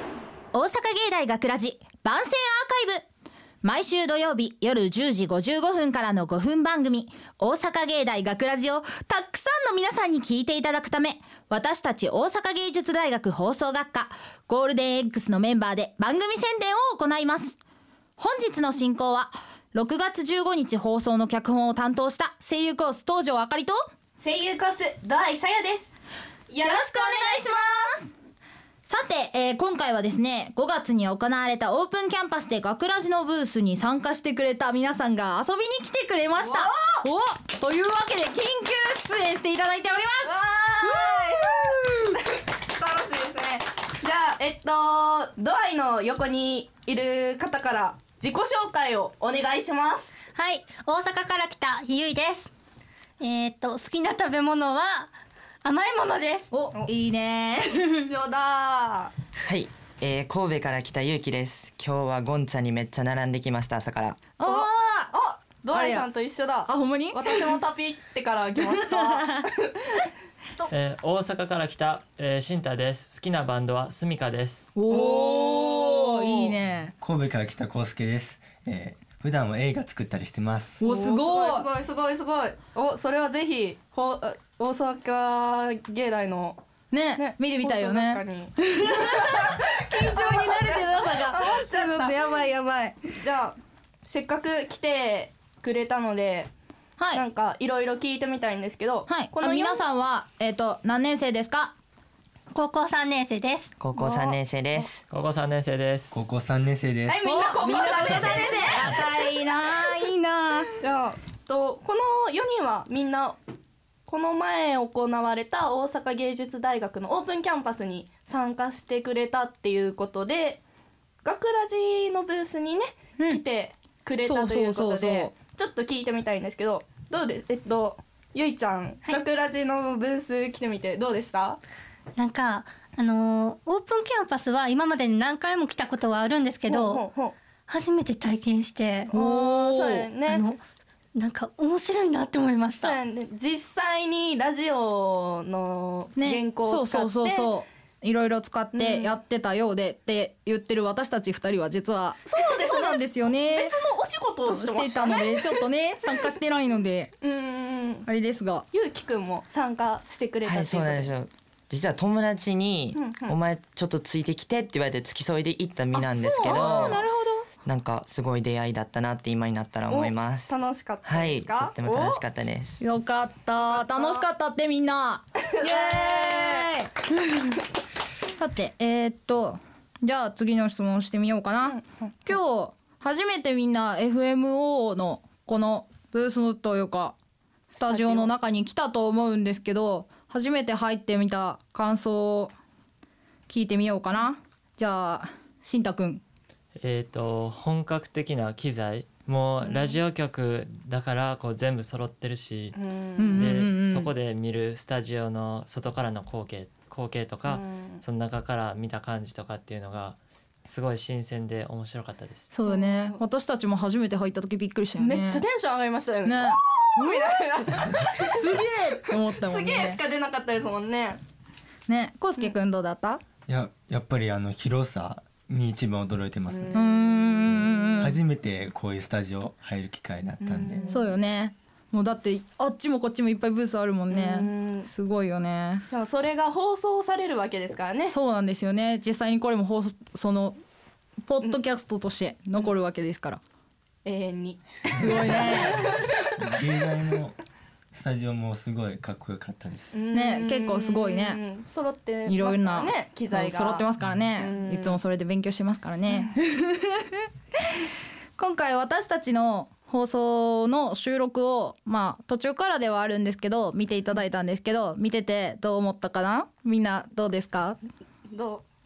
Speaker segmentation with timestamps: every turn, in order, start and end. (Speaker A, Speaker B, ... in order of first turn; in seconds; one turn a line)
Speaker A: 0.5-3.0
Speaker A: 3.6-17.6
Speaker A: 18.2-23.8
Speaker B: 24.2-25.9
Speaker B: 26.5-27.8
Speaker A: 26.6-28.1
Speaker A: 28.9-42.0
Speaker B: 36.4-37.0
Speaker B: 40.2-50.1
Speaker C: 50.4-52.5
Speaker C: 53.2-55.1
Speaker C: 55.6-56.5
Speaker A: 56.5-58.0
Speaker B: 57.9-59.1
Speaker D: 59.5-64.2
Speaker A: 64.4-65.1
Speaker B: 64.4-70.1
Speaker A: 65.7-66.1
Speaker A: 66.7-67.6
Speaker A: 68.7-69.5
Speaker E: 70.7-74.8
Speaker A: 74.8-76.9
Speaker B: 74.9-76.6
Speaker F: 77.0-80.8
Speaker A: 80.8-81.7
Speaker B: 80.8-86.6
Speaker A: 86.9-93.0
Speaker B: 87.2-92.2
Speaker B: 93.1-96.5
Speaker A: 97.0-97.2
Speaker B: 97.1-99.8
Speaker A: 99.1-101.8
Speaker C: 102.5-103.7
Speaker D: 103.8-105.0
Speaker B: 104.0-104.9
Speaker E: 105.1-106.2
Speaker F: 106.1-107.4
Speaker B: 107.1-109.0
Speaker A: 107.2-110.7
Speaker B: 110.8-113.4
Speaker B: 114.1-120.6
Speaker B: 121.2-131.6
Speaker A: 124.2-125.3
Speaker C: 132.2-137.0
Speaker B: 136.7-137.3
Speaker C: 137.7-139.1
Speaker B: 139.1-140.4
Speaker A: 139.1-140.1
Speaker C: 140.3-140.6
Speaker C: 141.2-143.0
Speaker B: 142.8-147.5
Speaker A: 146.2-153.8
Speaker B: 148.7-149.1
Speaker B: 152.3-155.6
Speaker A: 154.5-157.1
Speaker B: 157.2-158.1
Speaker A: 158.1-158.7
Speaker B: 158.7-161.1
Speaker D: 160.5-167.0
Speaker B: 162.9-163.4
Speaker A: 166.0-167.5
Speaker B: 166.2-167.1
Speaker D: 167.7-172.8
Speaker B: 169.9-172.2
Speaker A: 172.8-177.5
Speaker B: 173.7-174.2
Speaker B: 175.5-176.7
Speaker A: 178.4-187.2
Speaker B: 181.7-182.1
Speaker A: 187.7-192.5
Speaker B: 187.9-188.3
Speaker A: 193.5-196.2
Speaker E: 196.8-202.8
Speaker B: 199.6-200.0
Speaker B: 202.8-203.5
Speaker A: 203.2-204.1
Speaker E: 203.3-212.5
Speaker B: 207.5-208.0
Speaker A: 212.5-215.4
Speaker B: 212.7-213.2
Speaker B: 215.0-221.2
Speaker A: 216.2-217.4
Speaker A: 218.2-220.0
Speaker A: 221.9-223.2
Speaker F: 223.5-231.0
Speaker B: 226.5-227.3
Speaker A: 226.7-228.2
Speaker B: 230.4-231.1
Speaker A: 230.9-235.9
Speaker B: 234.1-234.9
Speaker B: 235.9-238.2
Speaker A: 238.1-240.6
Speaker A: 241.3-243.4
Speaker B: 244.1-246.3
Speaker A: 244.9-245.8
Speaker F: 245.3-245.7
Speaker F: 246.4-247.4
Speaker F: 247.9-249.9
Speaker B: 249.9-253.9
Speaker A: 250.1-251.4
Speaker A: 252.3-257.3
Speaker B: 254.4-255.0
Speaker B: 256.1-256.4
Speaker A: 258.4-267.8
Speaker B: 268.3-268.6